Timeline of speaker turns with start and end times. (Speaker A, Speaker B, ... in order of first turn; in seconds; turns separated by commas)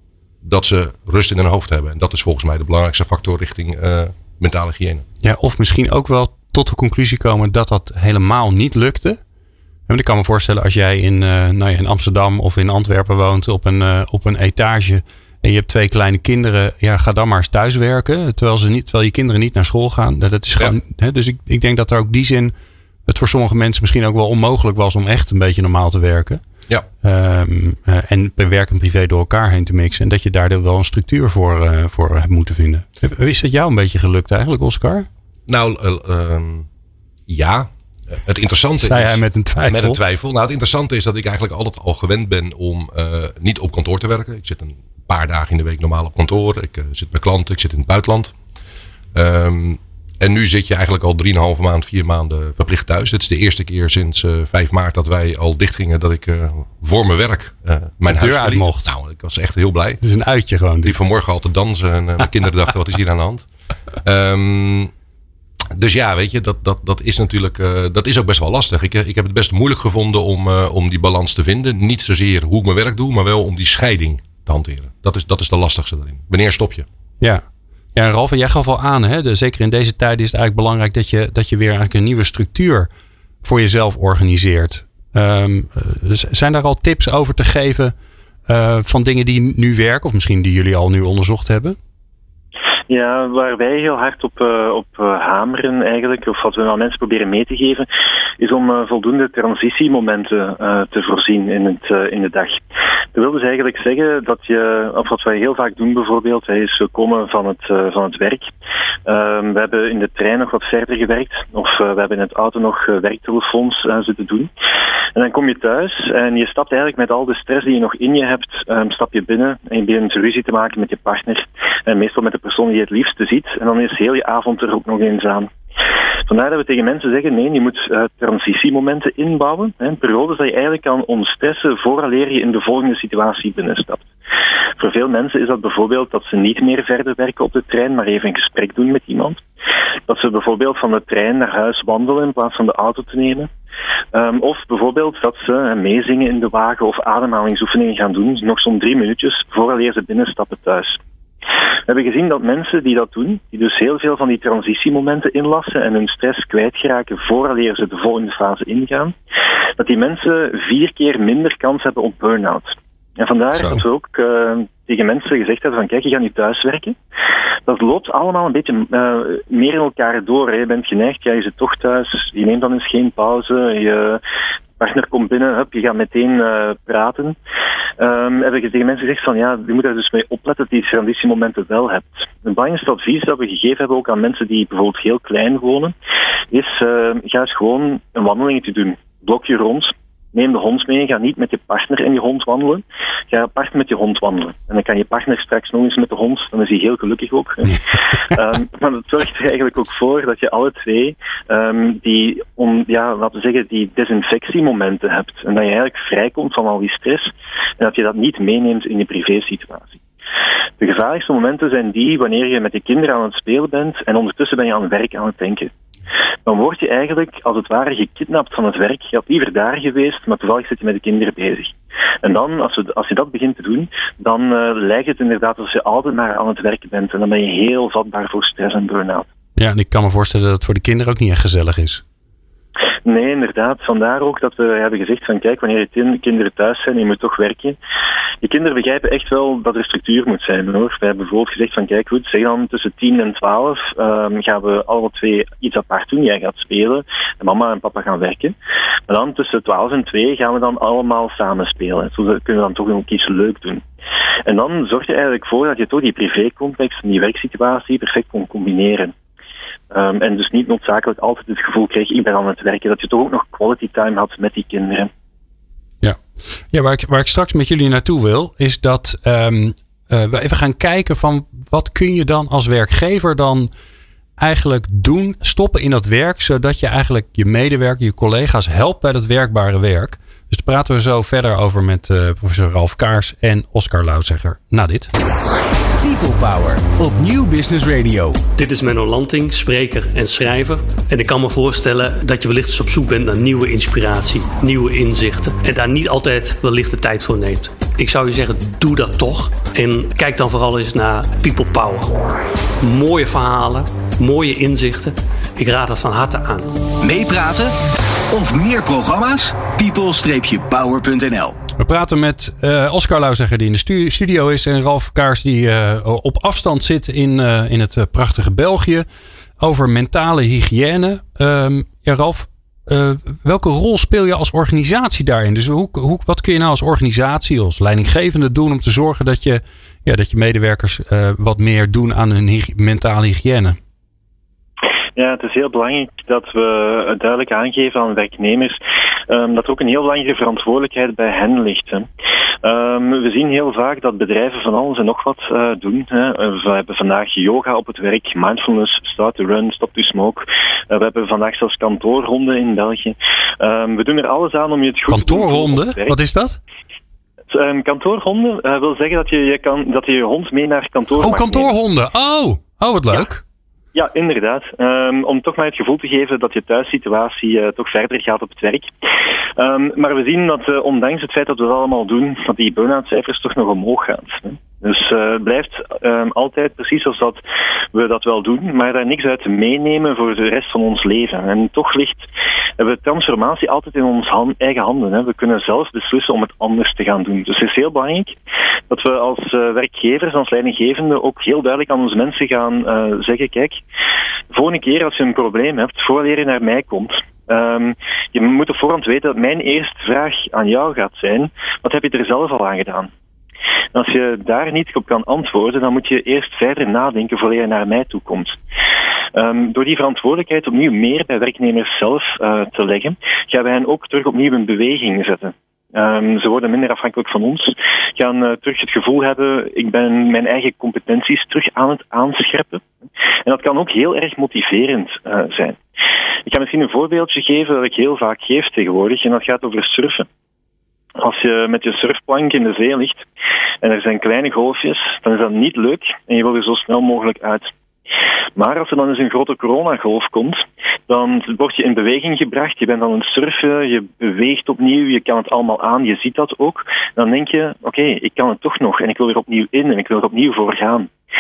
Speaker A: 0.4-5.0, Speaker B: 5.2-9.2, Speaker B: 9.9-22.5, Speaker B: 23.1-26.4, Speaker B: 27.0-35.1, Speaker A: 35.5-36.7, Speaker A: 37.3-48.3, Speaker B: 38.8-40.0, Speaker A: 49.1-60.0, Speaker B: 58.1-58.9, Speaker B: 60.0-61.0, Speaker A: 60.8-63.5, Speaker A: 64.0-64.9, Speaker A: 65.7-76.8, Speaker B: 77.2-82.9, Speaker B: 83.4-87.9, Speaker B: 88.5-91.8, Speaker C: 92.9-97.9, Speaker C: 98.4-102.6, Speaker C: 103.1-108.5, Speaker C: 109.0-114.5, Speaker C: 115.1-125.5, Speaker C: 126.3-134.1, Speaker C: 134.8-139.4, Speaker C: 140.1-143.5, Speaker C: 144.1-151.0, Speaker C: 151.9-159.1, Speaker C: 159.8-166.9, Speaker C: 167.7-174.2, Speaker C: 174.8-177.3, Speaker C: 178.0-185.9, Speaker C: 186.5-210.0, Speaker C: 210.8-215.7, Speaker C: 216.4-229.3, Speaker B: 229.6-232.0, Speaker C: 233.0-237.8, Speaker C: 238.4-248.5, Speaker C: 249.1-253.8, Speaker C: 254.4-259.1, Speaker C: 259.9-265.1, Speaker B: 266.7-273.7, Speaker B: 274.4-285.1, Speaker D: 286.0-288.4, Speaker E: 288.6-302.2, Speaker E: 302.8-306.8, Speaker D: 307.0-307.7, Speaker D: 308.3-311.6, Speaker B: 311.8-319.1, Speaker B: 319.6-333.8, Speaker C: 335.1-342.1, Speaker C: 342.6-356.2, Speaker B: 355.1-356.6, Speaker C: 357.5-361.7, Speaker B: 361.2-363.4, Speaker C: 363.9-368.9, Speaker C: 369.6-377.4, Speaker C: 377.9-382.3, Speaker C: 382.8-388.4, Speaker C: 388.9-393.8, Speaker C: 394.5-403.1, Speaker C: 403.9-408.6, Speaker C: 409.3-422.8, Speaker C: 423.4-425.8, Speaker C: 426.4-430.3, Speaker C: 431.1-433.2, Speaker C: 433.8-437.7, Speaker C: 438.6-451.1